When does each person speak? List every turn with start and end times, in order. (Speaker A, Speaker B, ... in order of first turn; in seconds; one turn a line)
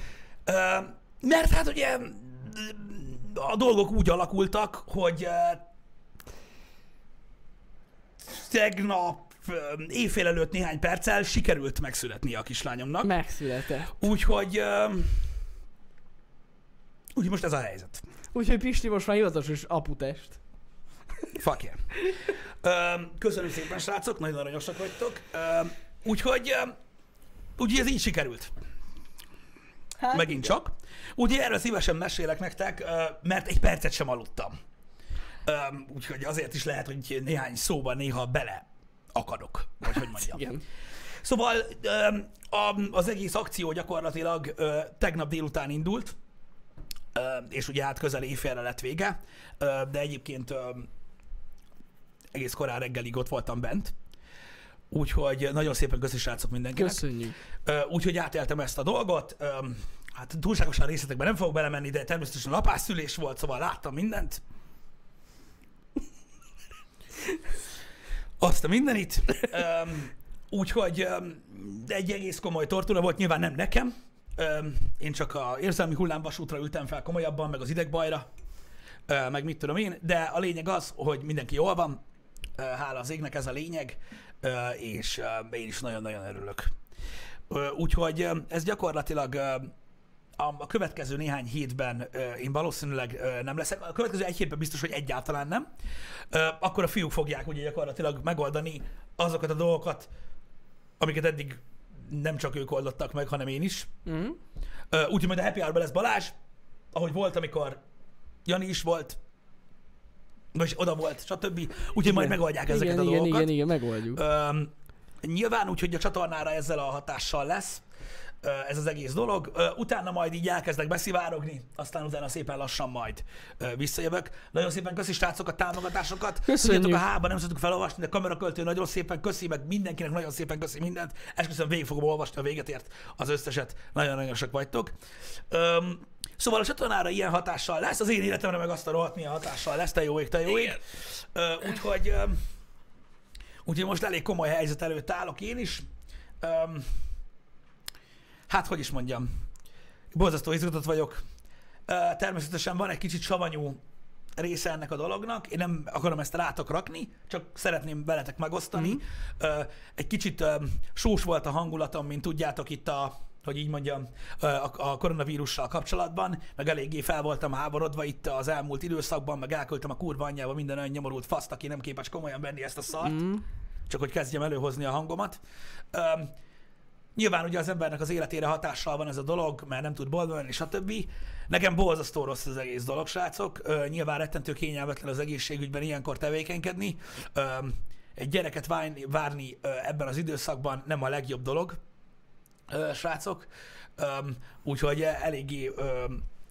Speaker A: 0.5-5.6
Speaker A: 8.2-13.1
Speaker B: 13.0-13.9
Speaker A: 13.9-15.3
Speaker A: 17.1-18.0
Speaker B: 18.3-20.4
Speaker A: 21.3-26.7
Speaker A: 27.6-28.5
Speaker B: 30.0-30.5
Speaker A: 30.1-34.5
Speaker A: 35.4-40.5
Speaker B: 40.0-40.6
Speaker A: 41.2-46.1
Speaker A: 47.1-50.9
Speaker A: 52.3-53.9
Speaker A: 54.9-57.0
Speaker B: 56.7-57.4
Speaker A: 57.6-64.4
Speaker A: 68.4-78.3
Speaker A: 79.1-82.0
Speaker A: 82.6-86.7
Speaker A: 87.5-89.7
Speaker A: 90.4-95.7
Speaker A: 96.3-100.1
Speaker A: 101.0-103.9
Speaker B: 104.0-104.4
Speaker A: 104.9-106.3
Speaker A: 106.9-107.8
Speaker A: 108.5-109.2
Speaker A: 110.5-113.5
Speaker B: 112.0-114.2
Speaker A: 114.1-117.8
Speaker A: 118.4-134.9
Speaker B: 126.5-127.0
Speaker A: 135.5-142.4
Speaker A: 143.6-145.9
Speaker A: 146.4-146.9
Speaker A: 148.5-149.3
Speaker A: 150.1-151.2
Speaker A: 151.9-153.8
Speaker A: 154.4-173.2
Speaker B: 158.7-159.0
Speaker B: 173.0-173.4
Speaker A: 173.9-175.4
Speaker A: 175.9-176.3
Speaker A: 177.1-191.8
Speaker A: 192.7-196.2